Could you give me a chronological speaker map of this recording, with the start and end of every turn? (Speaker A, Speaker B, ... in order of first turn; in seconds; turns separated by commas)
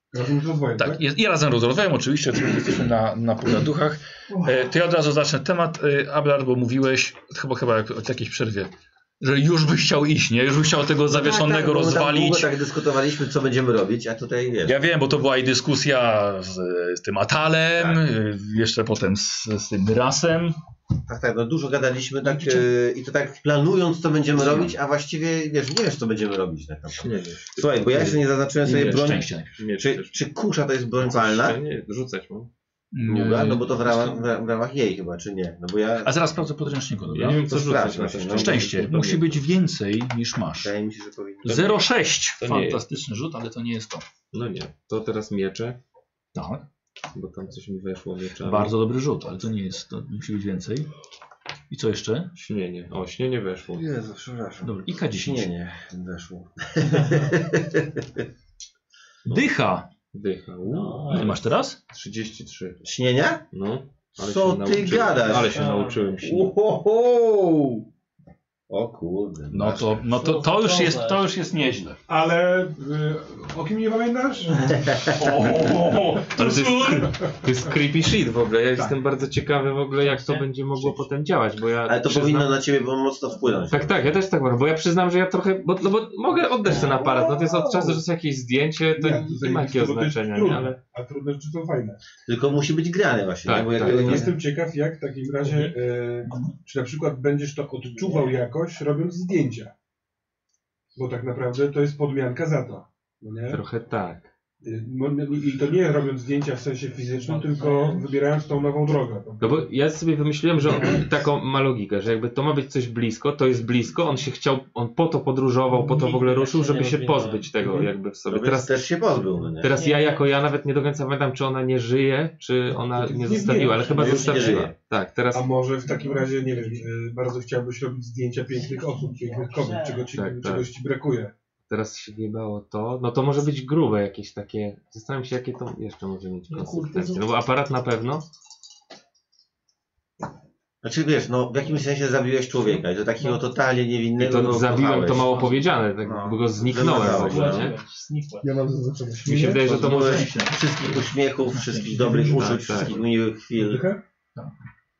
Speaker A: 0.1-1.0, Speaker B: 0.8-12.5, Speaker C: 11.1-14.8, Speaker B: 14.7-20.6, Speaker C: 17.8-18.0, Speaker C: 21.1-31.6, Speaker B: 22.2-22.7, Speaker B: 24.4-24.7, Speaker D: 26.9-30.2, Speaker B: 28.6-29.6, Speaker D: 31.0-32.5, Speaker B: 32.9-34.2, Speaker C: 33.1-36.2, Speaker B: 36.0-37.4, Speaker D: 37.1-39.4, Speaker C: 37.5-39.0, Speaker B: 38.3-40.7, Speaker C: 40.6-41.8, Speaker B: 41.4-44.0, Speaker D: 42.4-42.8, Speaker D: 44.3-45.8, Speaker B: 46.4-46.6, Speaker D: 47.1-48.8, Speaker B: 48.4-50.9, Speaker B: 51.7-52.3, Speaker D: 52.4-53.9, Speaker C: 53.8-58.2, Speaker B: 54.6-55.5, Speaker B: 59.3-59.9, Speaker D: 60.1-62.8, Speaker E: 60.6-61.5, Speaker B: 61.1-61.8, Speaker C: 62.8-63.4, Speaker D: 63.5-66.5, Speaker C: 64.2-65.7, Speaker E: 65.3-66.2, Speaker C: 66.2-67.9, Speaker C: 68.7-70.0, Speaker B: 69.5-72.0, Speaker E: 70.0-71.4, Speaker A: 72.1-75.1, Speaker B: 75.1-77.2, Speaker D: 76.4-82.6, Speaker E: 80.0-80.5, Speaker C: 81.9-84.2, Speaker D: 83.7-90.8, Speaker C: 86.7-88.0, Speaker A: 88.9-92.0, Speaker C: 92.3-94.4, Speaker D: 93.4-94.3, Speaker A: 93.8-99.7, Speaker B: 95.4-95.7, Speaker B: 96.3-96.5, Speaker E: 98.0-98.4, Speaker A: 101.0-103.6, Speaker D: 103.5-104.3, Speaker A: 104.6-109.7, Speaker E: 107.0-108.2, Speaker D: 109.4-118.8, Speaker E: 110.8-111.1, Speaker E: 115.7-117.6, Speaker A: 117.6-117.9, Speaker C: 118.3-119.7, Speaker D: 119.6-125.5, Speaker E: 119.6-120.3, Speaker A: 122.9-124.6, Speaker C: 123.8-124.7, Speaker A: 125.3-131.3, Speaker E: 125.8-126.8, Speaker E: 128.5-130.2, Speaker D: 130.1-130.7, Speaker D: 131.7-138.2, Speaker E: 136.5-137.2, Speaker C: 140.8-147.7, Speaker D: 144.2-147.7, Speaker E: 146.8-148.6, Speaker A: 148.4-149.7, Speaker D: 149.2-150.3, Speaker C: 149.6-153.8, Speaker B: 149.8-152.8, Speaker A: 151.9-153.1, Speaker D: 152.3-153.0, Speaker A: 153.6-154.0